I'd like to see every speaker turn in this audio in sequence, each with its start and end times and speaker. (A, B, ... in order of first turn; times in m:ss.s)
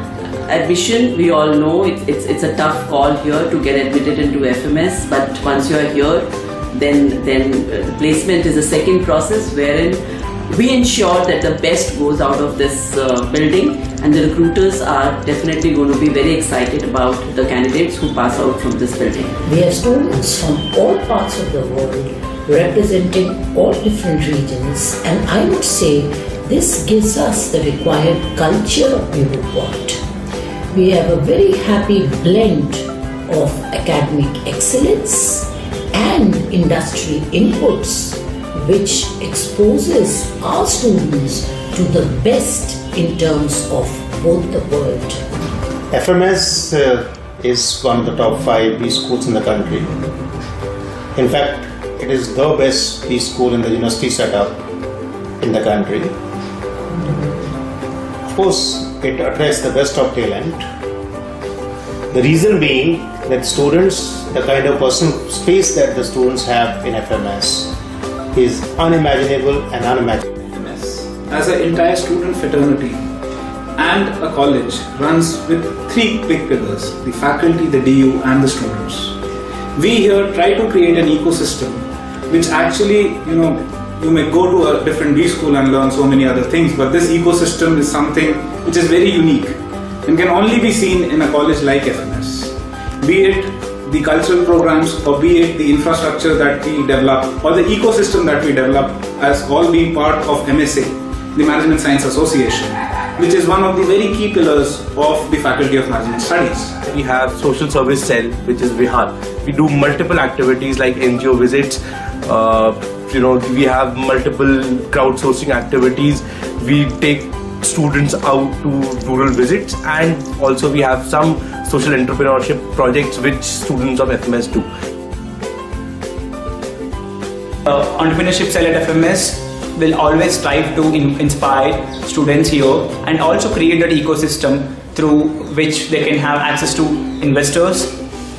0:00.5-0:19.4 A
0:19.5-0:30.0 B
0:30.7-0:45.2 B
0:45.9-0:49.9 C
0:51.1-0:54.6 C
0:55.4-0:56.1 C
0:58.2-1:00.6 C
1:02.1-1:07.8 C
1:08.3-1:10.2 C
1:10.5-1:13.0 D
1:13.8-1:19.2 D
1:19.8-1:46.8 D
1:46.8-2:04.7 E
2:07.6-2:17.9 F